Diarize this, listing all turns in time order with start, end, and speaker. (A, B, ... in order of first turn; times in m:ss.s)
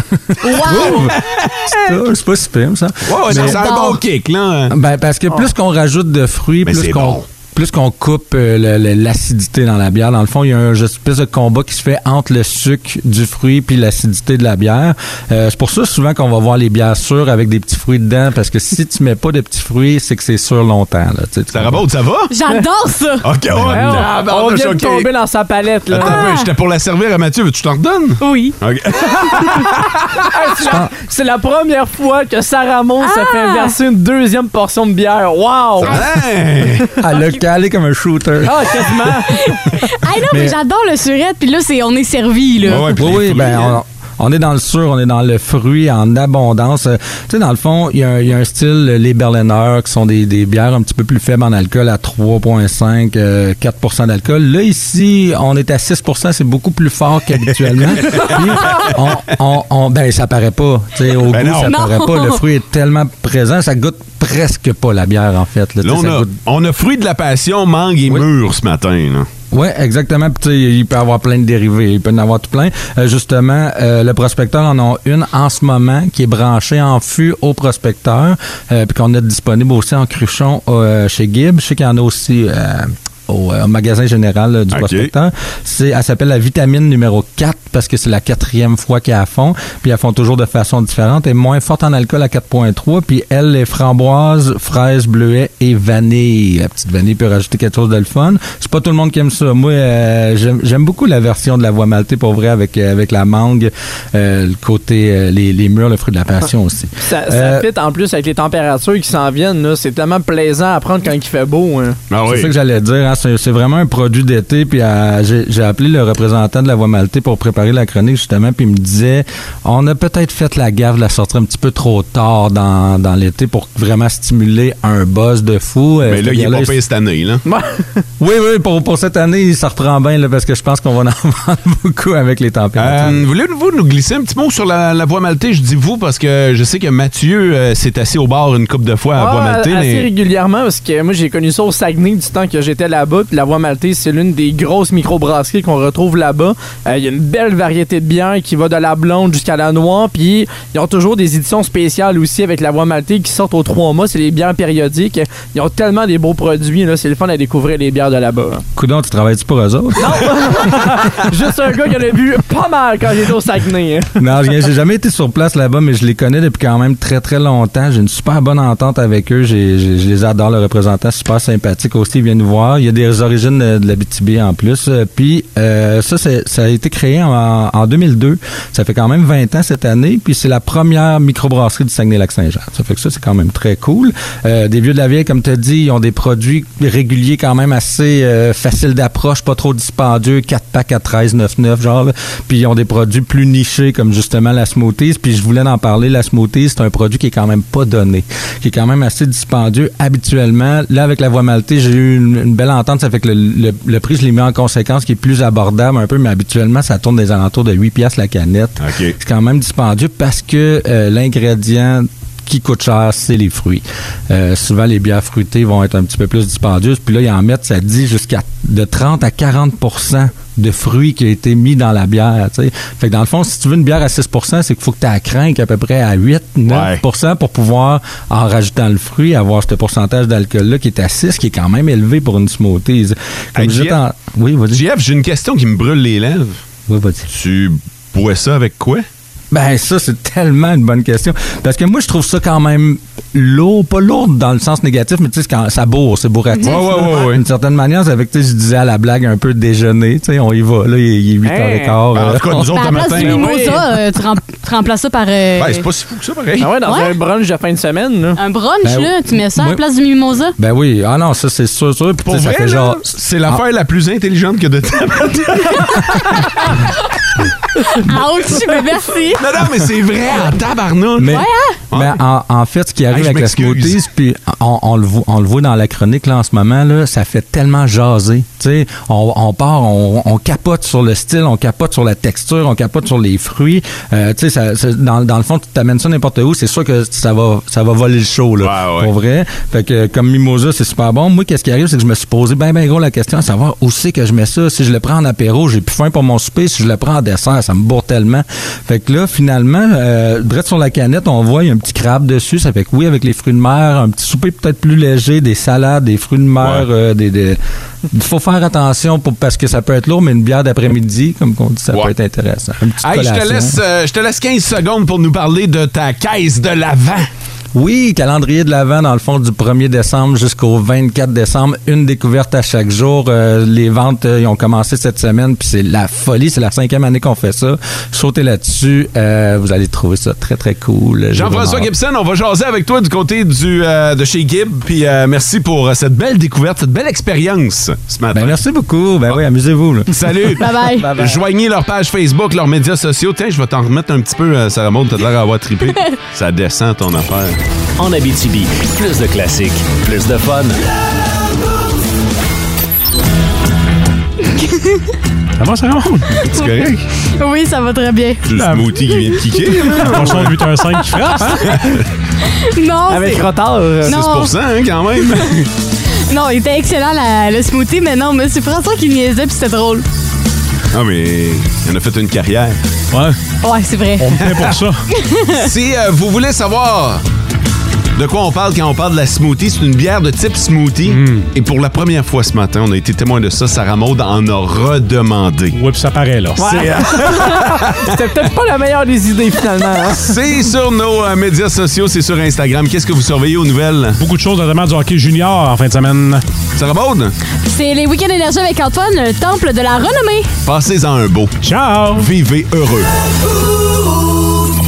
0:00.4-0:01.1 A
0:00.4-0:03.9 B
0:00.5-0:01.9 C
0:03.0-0:04.7 C
0:03.3-0:04.0 A
0:04.7-0:21.9 B
0:06.6-0:07.2 C
0:21.5-0:22.3 C
0:22.3-0:23.2 A
0:23.2-0:25.1 C
0:23.7-0:26.3 D
0:25.9-0:30.2 C
0:26.0-0:26.5 A
0:28.2-0:28.6 A
0:30.3-0:36.1 D
0:33.0-0:33.7 A
0:35.8-0:36.9 C
0:37.0-0:39.0 B
0:38.4-0:39.6 D
0:39.2-0:43.0 A
0:40.3-0:40.6 B
0:42.6-0:43.8 C
0:43.0-1:06.3 B
0:58.0-0:58.3 C
1:01.3-1:01.7 C
1:01.6-1:02.4 A
1:05.8-1:09.3 C
1:09.5-1:47.7 B
1:24.7-1:25.1 C
1:47.0-1:52.0 D
1:52.1-1:52.5 C
1:52.2-2:06.8 B
2:06.0-2:07.4 C
2:07.4-2:08.0 D
2:08.2-2:13.2 B
2:12.8-2:20.1 C
2:19.2-2:38.6 D
2:38.8-2:40.9 B
2:40.0-2:44.1 D
2:44.2-3:54.8 B
3:28.8-3:29.1 C
3:46.7-3:47.0 C
3:53.6-3:54.0 C
3:54.7-3:56.6 C
3:56.9-3:57.2 B
3:57.3-3:59.0 C
3:59.5-4:13.0 B
4:06.6-4:07.4 C
4:11.4-4:12.0 D
4:12.1-4:13.6 C
4:12.7-4:15.8 A
4:13.2-4:13.8 D
4:15.6-4:16.7 C
4:16.6-4:18.4 D
4:16.8-4:17.2 A
4:18.4-4:20.5 A
4:18.8-4:19.8 B
4:20.6-4:23.6 B
4:22.2-4:26.2 C
4:27.8-4:29.4 A
4:29.3-4:31.4 C
4:31.2-5:07.6 B
4:31.3-4:31.8 A
4:31.9-4:32.2 C
4:33.1-4:34.0 C
4:48.6-4:49.1 C
5:06.6-5:06.9 C
5:08.1-5:13.8 B
5:13.0-5:17.3 C
5:17.7-5:31.9 B
5:31.3-5:38.5 C
5:38.3-5:41.4 B
5:40.1-5:47.6 C
5:40.6-5:41.1 A
5:48.0-5:50.8 E
5:54.6-5:55.1 A
5:55.6-5:56.4 F
5:56.4-5:57.0 C
5:57.4-5:58.4 A
5:58.4-6:00.6 C
5:58.5-5:58.9 F
6:00.0-6:01.7 F
6:01.6-6:02.0 C
6:02.5-6:03.5 A
6:03.1-6:04.2 D
6:04.0-6:04.5 A
6:04.0-6:05.7 C
6:05.2-6:05.5 A
6:06.3-6:10.0 A
6:10.9-6:12.8 C
6:13.1-6:13.4 F
6:13.6-6:14.4 A
6:14.2-6:15.0 F
6:14.5-6:14.8 C
6:15.2-6:15.6 A
6:15.6-6:17.2 C
6:18.2-6:25.8 C
6:21.1-6:21.5 F
6:25.7-6:26.7 F
6:26.6-6:30.3 D
6:26.6-6:28.3 C
6:30.0-6:34.2 C
6:34.2-6:36.4 F
6:36.8-6:37.3 C
6:37.6-6:40.5 A
6:40.6-6:43.1 C
6:41.6-6:42.3 F